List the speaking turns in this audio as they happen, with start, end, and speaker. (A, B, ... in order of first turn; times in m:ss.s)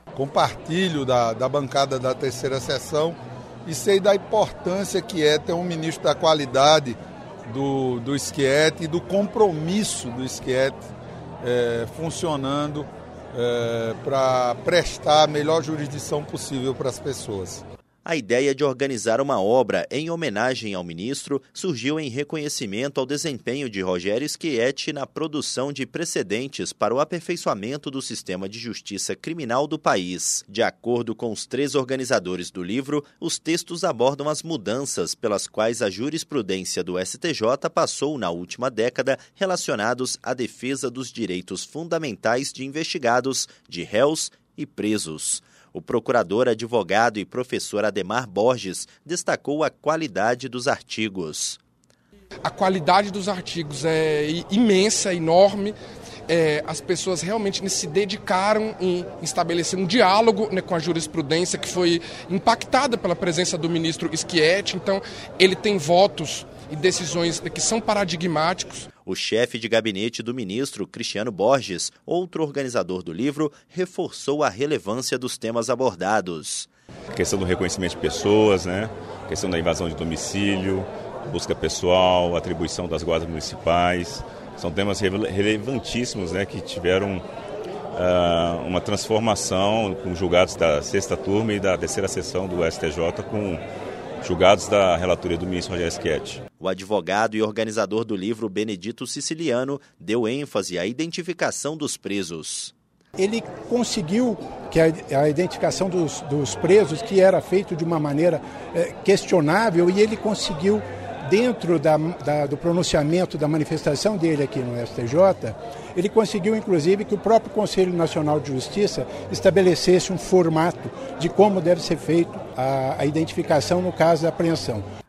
0:00.2-0:10.8 A
0:11.4-0:17.6 A
0:18.0-0:51.6 B
0:52.4-0:55.8 C
0:56.3-1:08.9 C
1:09.0-1:16.7 B
1:17.1-1:27.2 D
1:27.9-1:33.6 D
1:34.2-1:36.4 D
1:36.6-1:42.7 B
1:43.2-2:04.8 E